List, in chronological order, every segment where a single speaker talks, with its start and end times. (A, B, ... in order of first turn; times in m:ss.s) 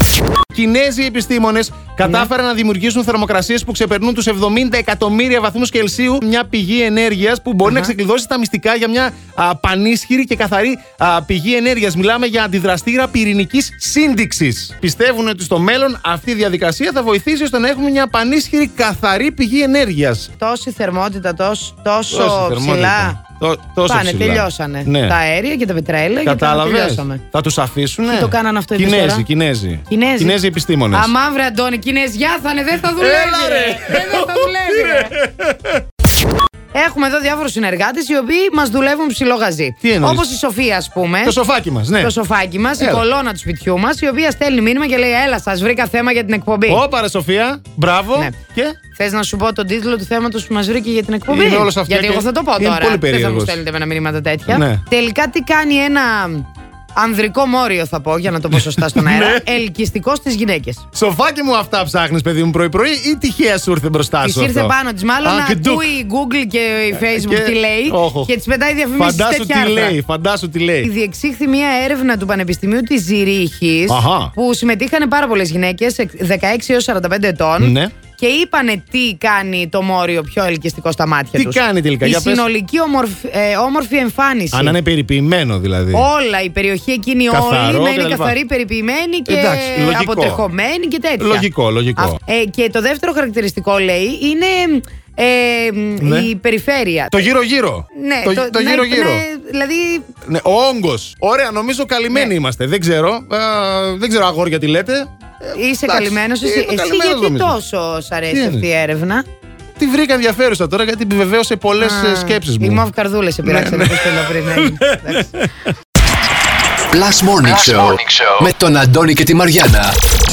0:00.5-0:20.3 A
0:07.6-0:07.9 B
0:20.4-0:23.2 B
0:22.1-0:25.2 A
0:23.8-0:27.2 B
0:26.2-0:31.1 A
0:28.1-0:29.2 B
0:29.9-0:30.4 B
0:30.9-0:35.1 B
0:32.9-0:35.8 A
0:36.7-0:41.4 B
0:39.8-0:40.3 A
0:41.2-0:42.1 A
0:42.0-0:46.8 B
0:42.8-0:43.0 A
0:46.7-0:48.8 A
0:48.9-1:00.8 B
0:51.3-0:53.6 A
0:54.5-0:54.8 A
0:58.6-0:59.5 A
1:00.9-1:05.9 A
1:04.2-1:10.0 B
1:07.0-1:08.3 A
1:09.0-1:10.9 A
1:10.8-1:24.8 B
1:13.9-1:14.3 A
1:17.6-1:17.9 A
1:21.4-1:22.4 A
1:24.5-1:26.1 A
1:25.9-1:37.2 B
1:27.3-1:28.4 A
1:29.2-1:30.4 A
1:31.2-1:32.2 A
1:36.0-1:36.3 A
1:37.1-1:39.2 A
1:37.9-1:40.1 B
1:40.2-1:47.6 A
1:45.5-1:49.2 B
1:48.3-1:48.6 A
1:49.8-1:52.8 A
1:51.8-1:55.3 B
1:53.4-1:55.7 A
1:56.9-2:00.0 C